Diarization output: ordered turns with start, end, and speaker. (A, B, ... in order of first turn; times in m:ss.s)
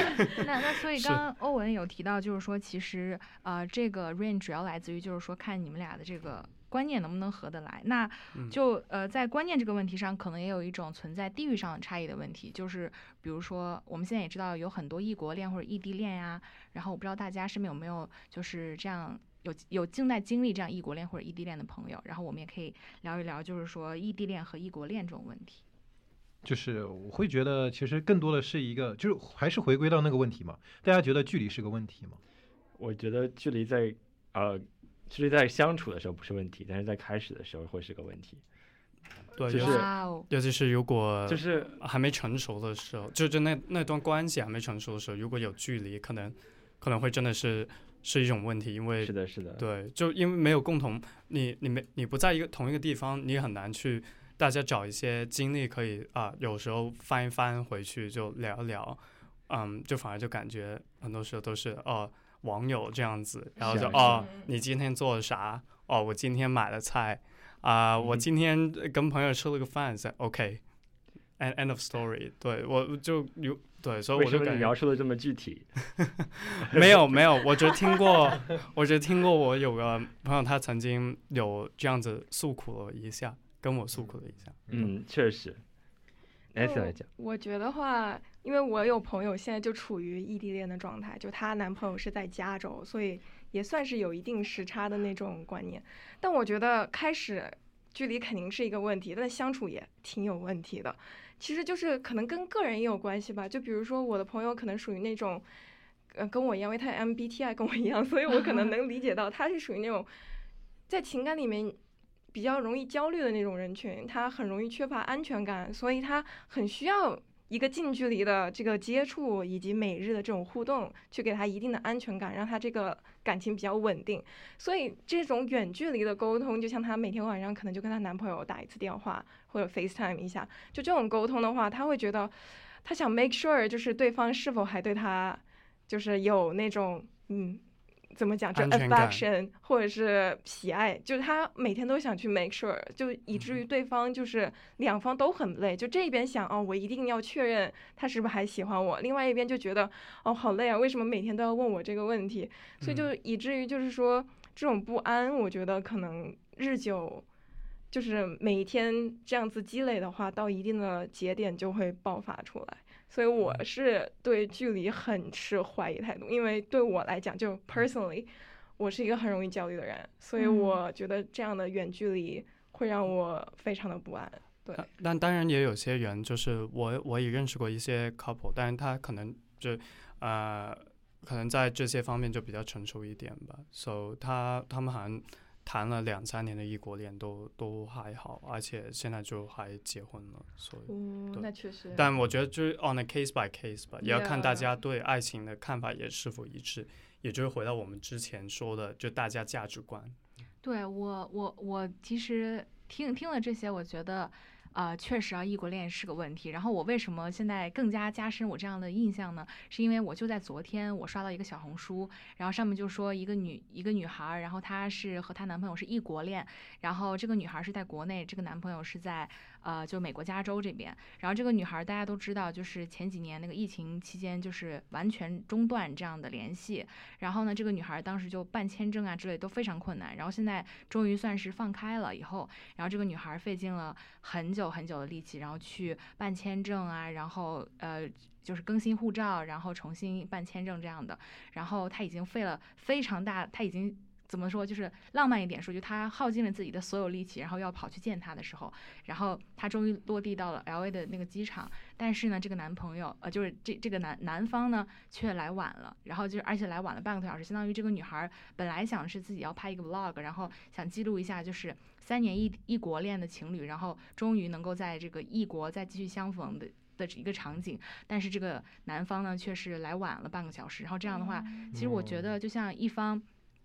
0:00.2-0:25.6 A
0:01.0-0:01.2 B
0:26.4-0:32.2 C
0:32.8-0:38.4 D
0:39.4-1:10.6 B
0:39.5-0:39.9 D
0:39.5-0:40.3 A
0:41.3-0:41.8 D
0:49.0-0:49.6 D
1:03.6-1:04.2 D
1:03.7-1:04.5 E
1:11.4-1:14.7 B
1:14.1-1:15.8 D
1:16.5-1:24.5 B
1:16.7-1:17.2 D
1:24.7-1:24.9 C
1:24.7-1:25.6 D
1:26.5-1:27.1 D
1:26.6-1:45.4 E
1:46.1-1:50.1 E
1:48.3-1:48.7 A
1:50.9-1:51.8 E
1:52.3-2:37.2 E
2:18.5-2:19.2 B
2:32.8-2:33.1 B
2:37.9-2:54.9 E
2:50.4-2:50.8 A
2:54.7-3:20.2 B
3:10.9-3:12.1 E
3:14.0-3:14.7 E
3:20.6-4:33.2 A
4:31.7-4:32.4 C